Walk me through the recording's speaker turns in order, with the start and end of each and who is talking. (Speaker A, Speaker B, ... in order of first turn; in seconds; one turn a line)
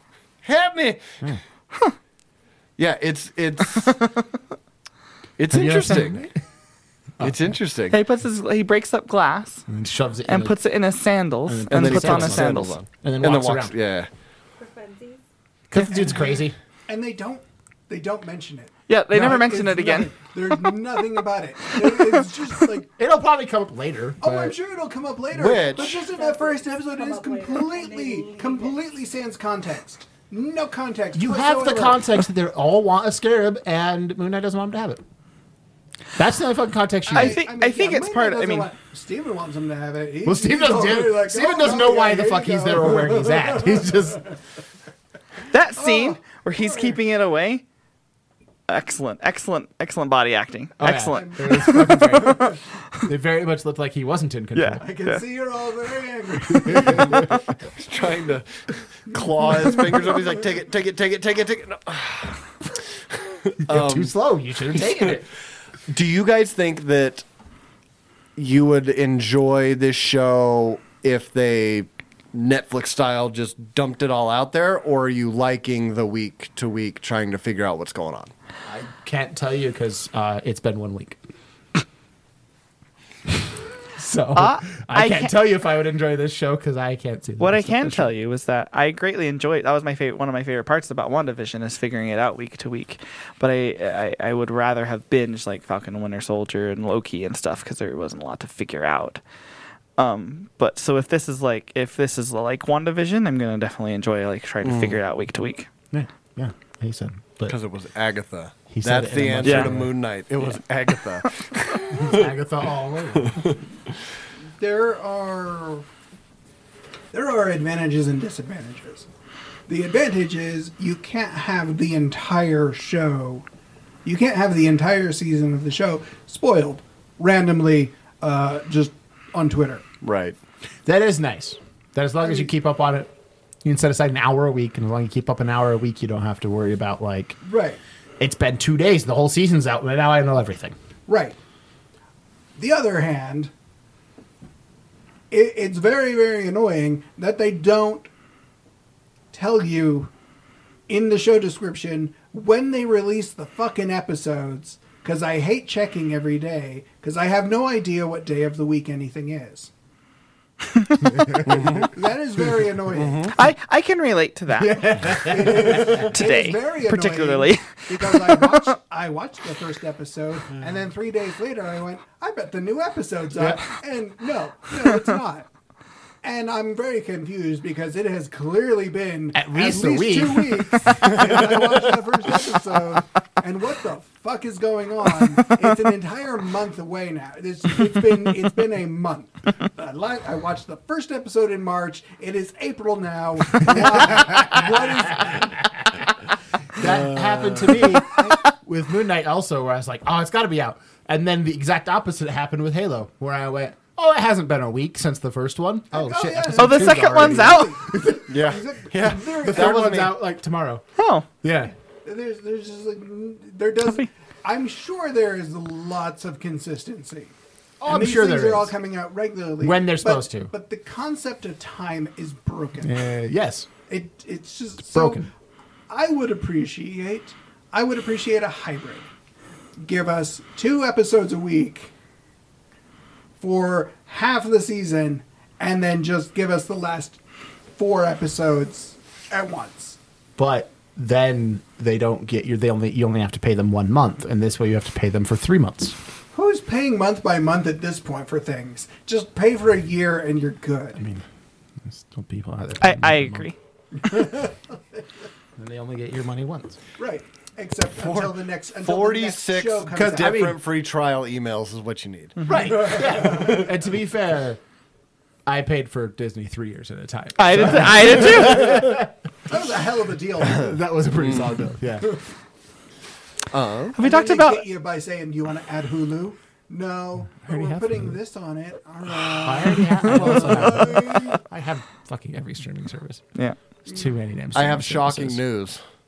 Speaker A: 0.4-1.2
Speaker A: 2.8-4.0
Speaker B: 3.7-4.1
Speaker A: 5.4-6.3
Speaker C: 5.5-6.3
Speaker A: 7.2-8.0
Speaker B: 7.9-9.6
Speaker C: 9.7-10.6
Speaker B: 10.3-12.8
Speaker C: 11.5-13.8
Speaker A: 11.7-14.1
Speaker D: 14.6-15.2
Speaker C: 15.7-16.6
Speaker E: 15.9-22.9
Speaker B: 18.9-20.1
Speaker C: 23.0-24.6
Speaker E: 24.2-32.1
Speaker A: 25.3-26.1
Speaker D: 25.8-28.8
Speaker C: 31.1-35.0
Speaker C: 36.2-37.4
Speaker E: 37.1-44.3
Speaker B: 37.1-38.7
Speaker C: 40.2-44.3
Speaker B: 45.5-47.6
Speaker E: 45.8-47.0
Speaker B: 48.7-52.5
Speaker C: 50.8-54.9
Speaker E: 51.1-52.6
Speaker B: 54.5-55.2
Speaker E: 54.8-57.3
Speaker C: 56.6-57.3
Speaker A: 57.1-64.2
Speaker C: 63.6-65.3
Speaker A: 64.8-65.1
Speaker A: 65.9-67.3
Speaker A: 68.4-78.3
Speaker C: 78.7-81.2
Speaker C: 84.0-88.1
Speaker B: 84.3-85.3
Speaker B: 87.4-99.2
Speaker B: 100.0-105.7
Speaker A: 104.6-105.0
Speaker C: 105.9-107.6
Speaker A: 107.5-112.3
Speaker C: 108.7-109.9
Speaker B: 109.4-109.7
Speaker C: 112.0-113.5
Speaker E: 114.6-115.9
Speaker E: 117.1-119.1
Speaker E: 119.7-123.5
Speaker E: 124.0-129.8
Speaker A: 130.0-130.4
Speaker C: 130.8-133.1
Speaker C: 133.6-137.4
Speaker E: 137.4-137.8
Speaker C: 138.2-140.8
Speaker E: 141.1-141.4
Speaker E: 142.6-143.5
Speaker E: 145.3-148.1
Speaker E: 149.3-150.1
Speaker E: 150.9-159.7
Speaker C: 161.0-161.8
Speaker A: 161.4-161.9
Speaker E: 161.5-163.3
Speaker A: 162.9-163.4
Speaker B: 163.3-168.7
Speaker C: 164.5-166.1
Speaker E: 165.0-175.5
Speaker E: 176.2-195.6
Speaker C: 179.3-181.2
Speaker C: 193.7-196.0
Speaker C: 196.8-208.4
Speaker A: 196.8-197.9
Speaker E: 198.1-198.4
Speaker E: 205.9-209.9
Speaker B: 206.6-207.8
Speaker A: 208.3-210.2
Speaker C: 209.1-210.8
Speaker B: 211.0-211.3
Speaker C: 211.4-211.7
Speaker E: 212.1-217.3
Speaker C: 217.8-218.7
Speaker E: 217.8-223.0
Speaker C: 219.6-220.5
Speaker C: 222.8-223.7
Speaker E: 223.9-225.3
Speaker C: 224.8-225.3
Speaker E: 225.9-229.1
Speaker E: 229.8-231.9
Speaker E: 233.4-237.2
Speaker E: 237.8-240.0
Speaker C: 240.4-246.0
Speaker E: 246.3-251.0
Speaker C: 251.0-251.2
Speaker C: 251.8-253.5
Speaker B: 252.8-253.6
Speaker C: 255.6-256.8
Speaker E: 257.0-260.4
Speaker A: 258.0-262.4
Speaker C: 259.9-260.6
Speaker B: 262.5-262.7
Speaker C: 262.5-264.6
Speaker E: 262.7-263.6
Speaker A: 263.3-263.6
Speaker C: 265.5-269.1
Speaker B: 267.4-268.9
Speaker E: 269.5-270.8
Speaker C: 270.4-272.2
Speaker A: 271.1-271.6
Speaker A: 273.5-274.0
Speaker B: 273.9-274.6
Speaker E: 274.0-281.4
Speaker C: 277.4-278.2
Speaker C: 279.3-283.2
Speaker C: 283.9-285.4
Speaker A: 284.5-285.8